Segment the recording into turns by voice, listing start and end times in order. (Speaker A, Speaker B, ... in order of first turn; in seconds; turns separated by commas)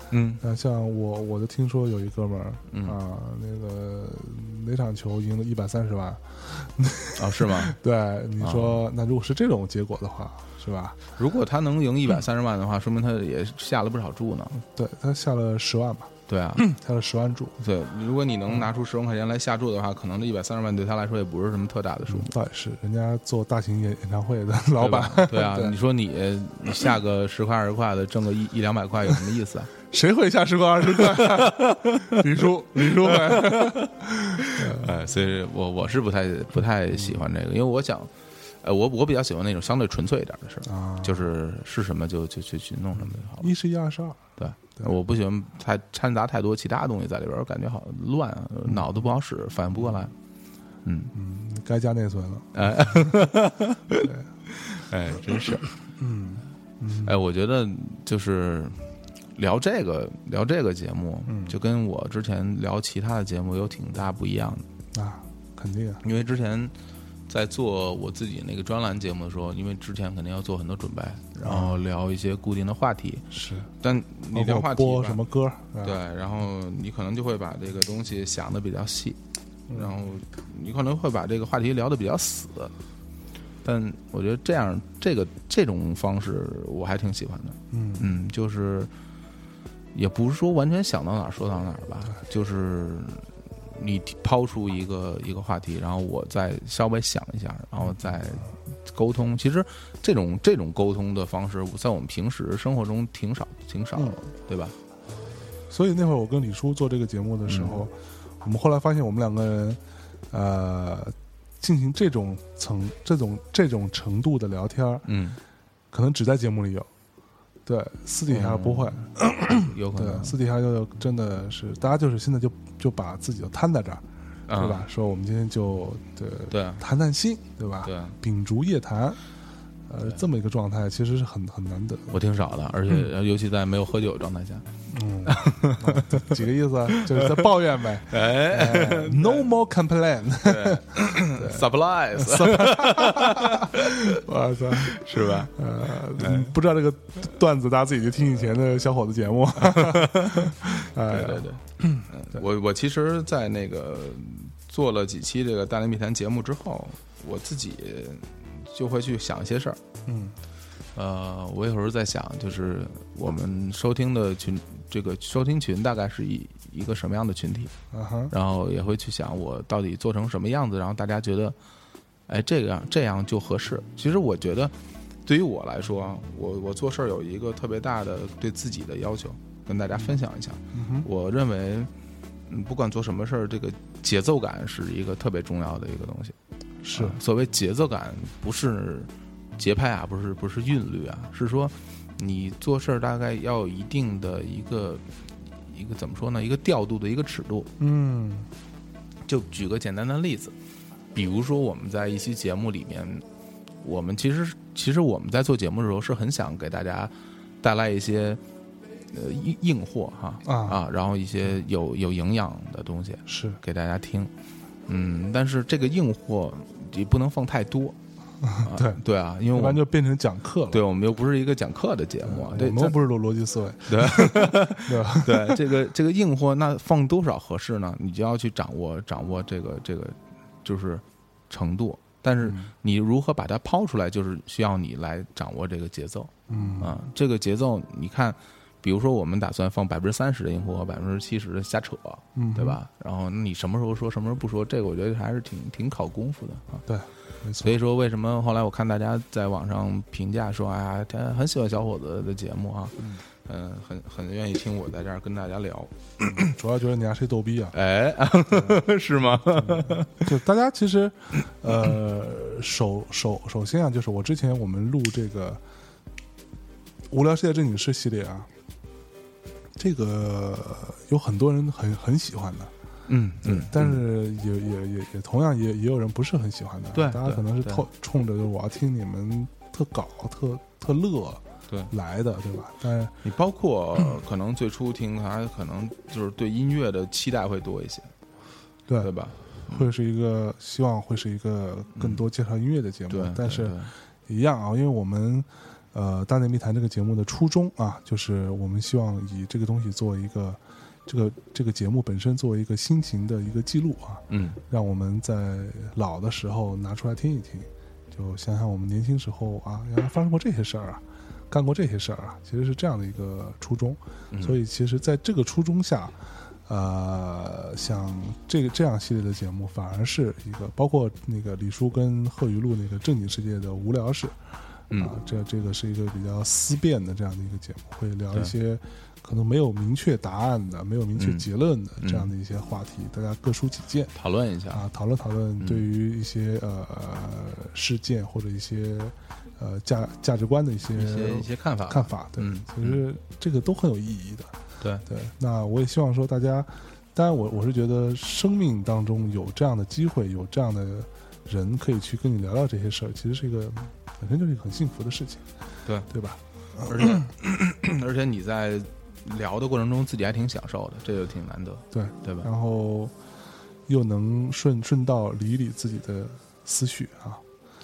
Speaker A: 0.1-0.4, Speaker B: 0.4-11.0, Speaker A: 2.7-3.0, Speaker A: 7.2-7.8, Speaker A: 8.4-8.8, Speaker A: 11.2-14.6, Speaker B: 14.6-17.6, Speaker A: 16.3-16.6, Speaker A: 17.6-22.3, Speaker B: 22.1-25.8, Speaker A: 24.8-29.7, Speaker B: 29.9-35.0, Speaker A: 31.0-43.5, Speaker B: 40.7-41.2, Speaker B: 43.0-44.2, Speaker A: 44.4-50.1, Speaker A: 50.8-51.1, Speaker B: 51.1-53.2, Speaker A: 52.5-54.1, Speaker B: 54.0-54.3, Speaker A: 54.7-55.7, Speaker B: 56.0-57.2, Speaker A: 57.0-64.7, Speaker B: 61.3-61.5, Speaker B: 64.9-66.0, Speaker A: 66.0-66.7, Speaker A: 67.3-73.3, Speaker B: 71.4-71.8, Speaker B: 73.3-73.7, Speaker A: 73.8-75.2, Speaker B: 74.3-76.0, Speaker A: 75.8-79.2, Speaker A: 79.7-82.7, Speaker A: 83.6-88.9, Speaker B: 87.7-88.1, Speaker A: 89.9-104.8, Speaker B: 105.7-109.8, Speaker A: 107.5-107.8, Speaker B: 110.3-115.1, Speaker A: 115.1-115.4, Speaker B: 115.9-116.9, Speaker B: 117.7-129.2, Speaker A: 118.3-120.4, Speaker A: 124.5-124.9, Speaker A: 126.5-126.8, Speaker A: 127.8-128.2, Speaker B: 129.9-132.2, Speaker A: 132.1-134.7, Speaker B: 134.9-152.1, Speaker A: 135.3-136.4, Speaker A: 136.9-137.5, Speaker A: 138.1-139.5, Speaker A: 140.4-144.2, Speaker A: 144.8-146.5, Speaker A: 149.6-159.8, Speaker B: 160.1-160.3, Speaker A: 160.9-167.7, Speaker B: 167.9-168.3, Speaker A: 168.3-171.6, Speaker A: 172.3-174.7, Speaker A: 175.2-181.9, Speaker B: 180.7-181.1, Speaker A: 182.5-186.4, Speaker B: 186.8-187.2, Speaker A: 186.9-195.1, Speaker A: 195.6-197.7, Speaker B: 197.8-198.5, Speaker A: 199.3-200.6, Speaker A: 201.1-203.2, Speaker A: 203.8-208.4, Speaker A: 209.1-214.3, Speaker B: 210.4-210.8, Speaker B: 213.3-213.6, Speaker A: 214.9-218.0, Speaker B: 218.4-220.8, Speaker A: 218.6-219.9, Speaker A: 220.7-223.0, Speaker B: 222.2-225.6, Speaker A: 223.9-246.8, Speaker B: 232.4-232.7, Speaker B: 236.5-237.0, Speaker B: 242.3-242.8, Speaker B: 246.9-247.8, Speaker A: 247.6-256.5, Speaker B: 256.2-257.8, Speaker A: 257.7-260.3, Speaker B: 258.5-258.8, Speaker B: 259.4-265.6, Speaker B: 267.1-268.5, Speaker B: 269.8-272.7, Speaker A: 273.1-274.0, Speaker B: 273.4-283.2, Speaker A: 276.9-277.9, Speaker A: 283.2-288.1, Speaker B: 288.9-334.1, Speaker A: 289.0-289.9, Speaker A: 292.0-292.2, Speaker A: 293.1-293.9, Speaker A: 304.3-304.6, Speaker A: 314.3-314.6, Speaker A: 331.2-331.5, Speaker A: 332.0-332.3, Speaker A: 334.1-334.8, Speaker B: 334.7-344.5, Speaker A: 335.6-335.9, Speaker A: 340.9-343.0, Speaker B: 345.1-355.4, Speaker B: 356.1-357.3, Speaker A: 356.9-362.5, Speaker B: 361.9-363.1, Speaker B: 363.9-367.4